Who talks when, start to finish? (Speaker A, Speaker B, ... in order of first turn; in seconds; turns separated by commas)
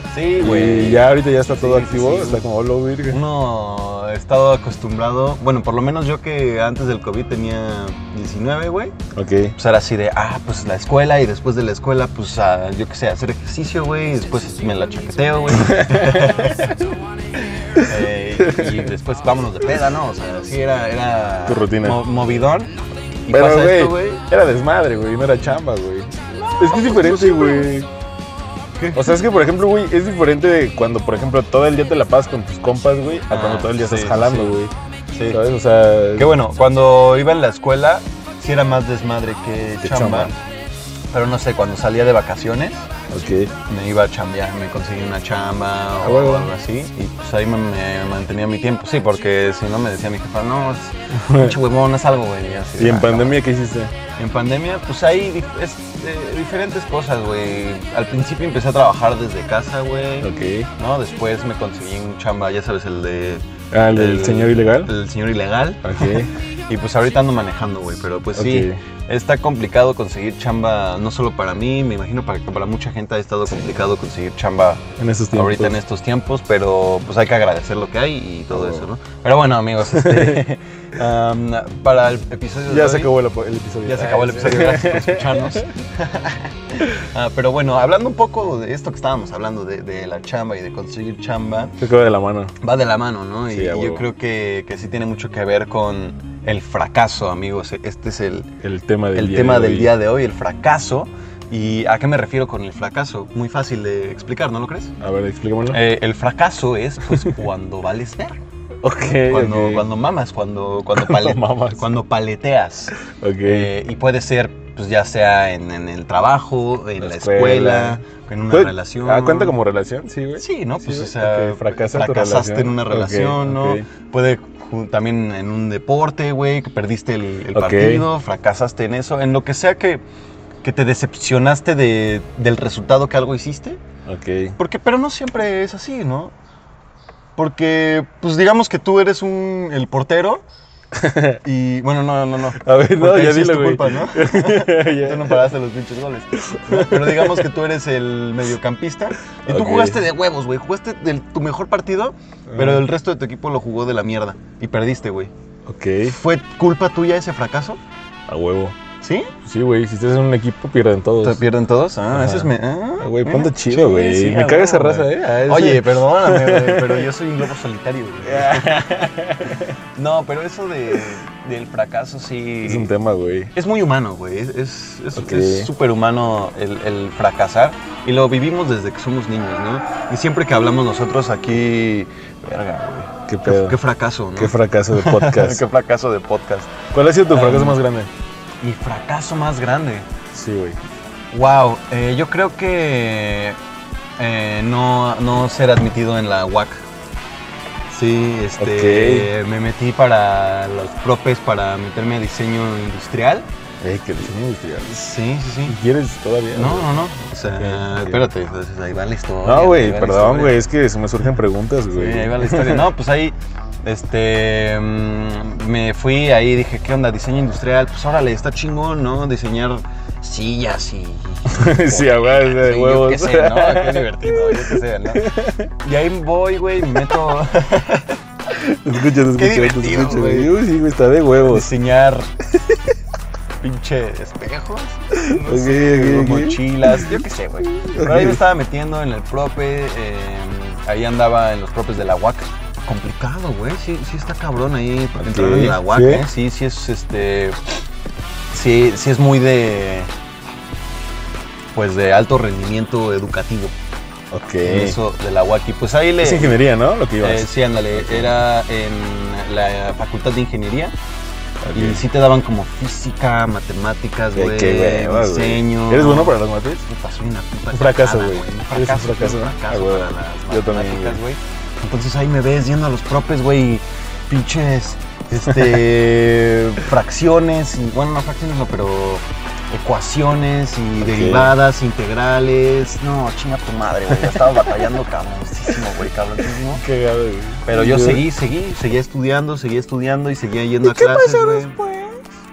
Speaker A: 0.1-2.5, Speaker B: 0.4-3.2, Speaker A: 3.1-9.0, Speaker B: 9.1-9.5, Speaker A: 9.6-16.9, Speaker B: 15.5-16.8, Speaker B: 17.7-18.9, Speaker A: 17.7-24.2, Speaker B: 21.4-22.0, Speaker B: 23.3-27.9, Speaker A: 26.4-27.7, Speaker A: 28.8-29.2, Speaker B: 28.9-34.7, Speaker A: 33.3-34.5, Speaker A: 35.1-35.4, Speaker B: 35.3-36.4, Speaker A: 36.1-40.4, Speaker B: 39.8-40.3, Speaker A: 41.1-42.9, Speaker B: 43.1-43.5, Speaker A: 43.7-53.4, Speaker B: 46.0-46.5, Speaker B: 51.1-51.6, Speaker B: 52.8-53.9, Speaker A: 54.2-83.1, Speaker B: 60.2-60.7, Speaker B: 63.7-64.9, Speaker B: 65.8-66.3, Speaker B: 68.3-68.8, Speaker B: 75.0-75.8, Speaker B: 78.5-78.9, Speaker B: 79.9-80.5, Speaker B: 82.7-85.7, Speaker A: 83.8-91.8, Speaker B: 91.8-92.5, Speaker A: 92.6-98.5, Speaker B: 93.5-94.0, Speaker B: 98.6-99.9, Speaker A: 99.1-104.9, Speaker B: 105.0-105.8, Speaker A: 105.7-108.4, Speaker B: 108.8-109.8, Speaker A: 109.2-119.6, Speaker B: 110.9-111.8, Speaker B: 113.0-113.7, Speaker B: 117.0-123.8, Speaker A: 120.4-130.0, Speaker B: 127.5-128.1, Speaker A: 130.6-133.8, Speaker B: 134.1-134.6, Speaker A: 134.6-136.3, Speaker A: 137.4-140.4, Speaker B: 140.9-141.4, Speaker A: 141.4-155.3, Speaker B: 142.6-145.5, Speaker B: 146.4-147.5, Speaker B: 149.4-150.0, Speaker B: 152.5-152.9, Speaker B: 155.7-156.2, Speaker A: 156.0-157.8, Speaker B: 158.3-158.8, Speaker A: 159.0-159.3, Speaker B: 159.4-161.4, Speaker A: 161.2-168.9, Speaker B: 162.1-167.1, Speaker B: 168.2-169.8, Speaker A: 169.9-172.9, Speaker B: 172.6-173.5, Speaker A: 173.5-187.8, Speaker B: 175.1-175.7, Speaker B: 183.3-183.8, Speaker B: 184.3-185.6, Speaker B: 186.9-188.1, Speaker A: 188.6-190.1, Speaker B: 190.3-190.8, Speaker A: 191.3-193.6, Speaker A: 194.2-196.8, Speaker A: 197.9-203.4, Speaker B: 198.6-199.3, Speaker B: 203.8-204.9, Speaker A: 204.8-205.8, Speaker B: 205.7-206.9, Speaker A: 206.5-210.6, Speaker B: 207.6-208.3, Speaker B: 209.4-212.9, Speaker A: 211.9-228.2, Speaker B: 221.5-225.7, Speaker B: 228.5-231.7, Speaker A: 229.1-230.6, Speaker A: 231.4-232.3, Speaker B: 232.6-232.9, Speaker A: 233.6-247.6, Speaker B: 235.1-238.4, Speaker B: 245.2-246.2, Speaker A: 248.5-250.1, Speaker A: 251.7-253.7, Speaker B: 254.3-255.0, Speaker A: 254.6-256.6, Speaker B: 256.2-258.4, Speaker A: 257.2-260.9, Speaker B: 261.6-262.0, Speaker A: 261.7-286.8, Speaker B: 264.3-266.8, Speaker B: 267.7-271.2, Speaker B: 275.5-275.8, Speaker B: 281.0-281.6, Speaker B: 284.1-284.9, Speaker B: 286.6-288.3, Speaker A: 287.6-291.8, Speaker B: 290.8-292.2